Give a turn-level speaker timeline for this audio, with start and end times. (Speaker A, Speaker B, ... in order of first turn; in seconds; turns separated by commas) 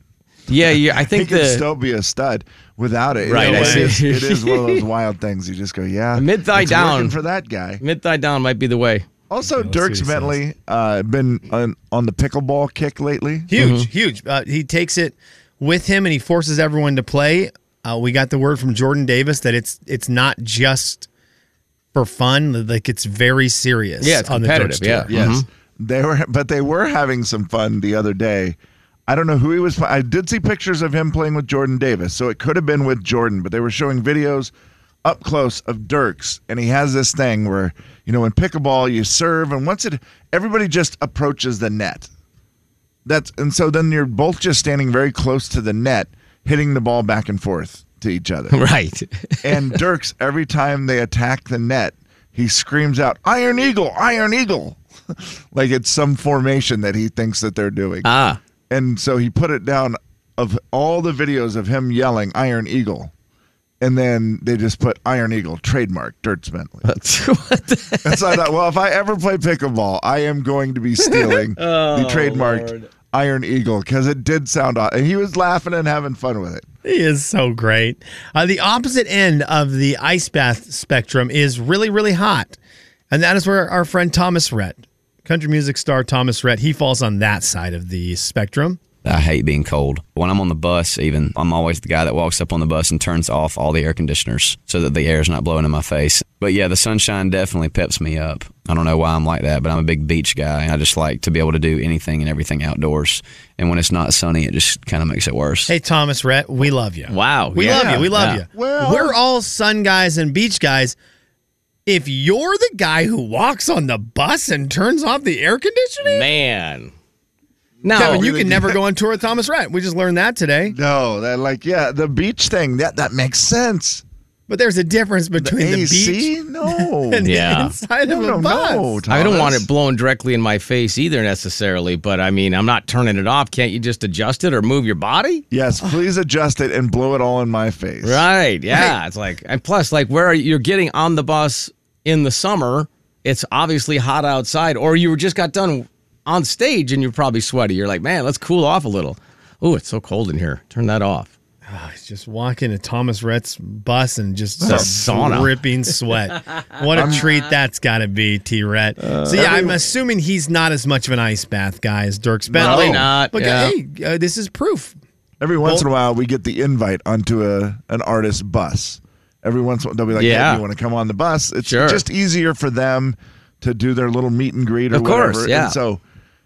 Speaker A: 0.5-1.6, Speaker B: 0.5-7.8, Speaker A: 3.3-4.8, Speaker C: 3.3-3.9, Speaker A: 6.2-7.2, Speaker A: 7.8-9.1, Speaker B: 9.3-13.5, Speaker C: 9.5-10.4, Speaker C: 13.5-21.1, Speaker A: 13.6-13.9, Speaker C: 21.9-25.1, Speaker A: 24.0-25.5, Speaker B: 25.1-34.5, Speaker B: 35.0-42.1, Speaker B: 43.1-48.6, Speaker A: 48.5-49.8, Speaker B: 49.4-58.1, Speaker A: 58.0-58.4, Speaker B: 58.7-63.1, Speaker B: 63.8-66.9, Speaker A: 66.8-68.5, Speaker B: 68.0-76.7, Speaker A: 71.0-72.9, Speaker C: 76.8-82.6, Speaker C: 83.1-88.8, Speaker D: 89.0-105.7, Speaker C: 105.7-111.0, Speaker A: 107.1-108.4, Speaker B: 107.6-109.2, Speaker C: 111.9-116.3, Speaker A: 116.0-116.9, Speaker B: 117.8-118.8, Speaker A: 117.8-118.3, Speaker C: 117.9-120.8, Speaker B: 120.7-124.0, Speaker C: 124.5-129.0, Speaker B: 125.4-127.3, Speaker A: 127.2-127.8, Speaker B: 128.1-129.7, Speaker A: 129.1-135.4, Speaker B: 135.5-138.3, Speaker A: 138.0-151.3, Speaker C: 151.7-165.0, Speaker B: 154.6-155.5, Speaker A: 154.7-155.5, Speaker B: 156.9-157.2, Speaker A: 159.0-159.7, Speaker B: 159.3-159.8, Speaker A: 162.5-163.7, Speaker B: 162.5-163.1, Speaker B: 165.4-176.0, Speaker A: 170.2-170.6, Speaker A: 171.7-172.0, Speaker A: 174.9-175.8